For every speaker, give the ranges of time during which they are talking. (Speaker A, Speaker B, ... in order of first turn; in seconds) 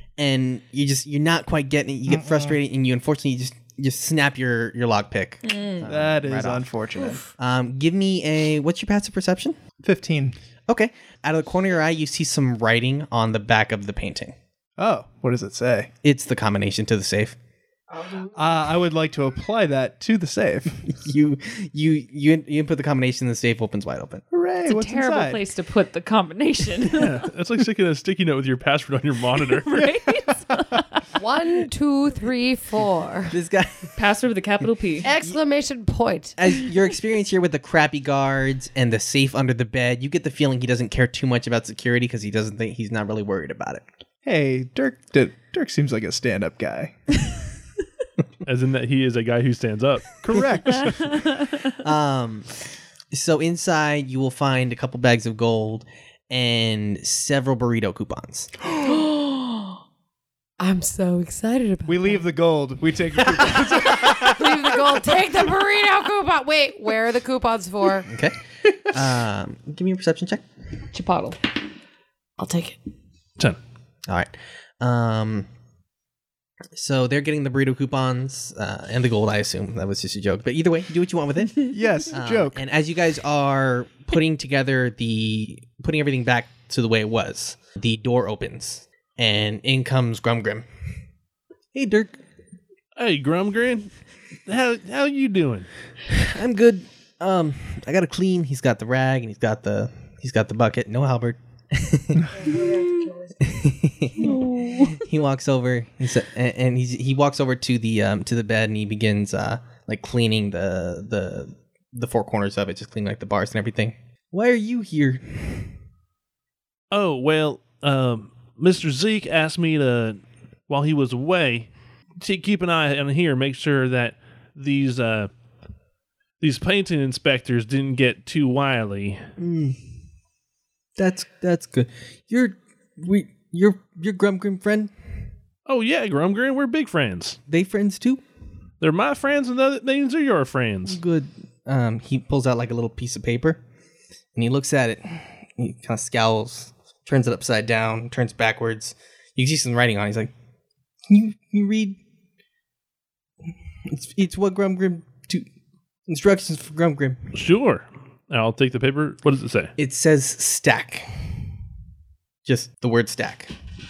Speaker A: 0.2-6.7, 7.4-9.6, 10.7-14.3, 16.0-17.4, 20.9-24.2, 33.3-33.9, 36.4-43.9, 51.7-52.5, 53.1-58.5, 68.0-70.4, 74.1-75.5, 76.7-90.7, 91.7-92.2, 96.1-102.3, 103.4-104.4, 104.9-115.7, 129.4-129.8, 131.0-134.9, 137.5-138.2, 140.9-143.6, 144.3-150.3, 151.1-152.0, 153.8-155.5, 156.1-157.3, 159.8-161.3, 162.4-163.5
Speaker B: 2.1-2.5, 5.8-7.2, 9.8-10.3, 14.8-15.9, 18.3-20.8, 24.3-25.4, 44.2-47.0, 50.2-51.2, 61.9-64.6, 81.6-82.6
Speaker C: 5.5-5.8, 24.6-27.2, 29.5-31.0, 33.9-35.1, 50.8-51.6, 70.9-71.4, 104.2-105.0
Speaker D: 17.9-18.4, 31.2-33.3, 35.0-36.4, 58.8-59.8, 60.6-62.2, 63.5-68.1, 72.4-72.8, 102.2-103.6
Speaker E: 26.9-29.9, 48.4-50.2, 93.0-93.9, 94.5-95.7, 116.9-121.7, 122.2-125.3, 126.4-129.3, 135.7-137.4, 138.8-141.0, 157.3-159.7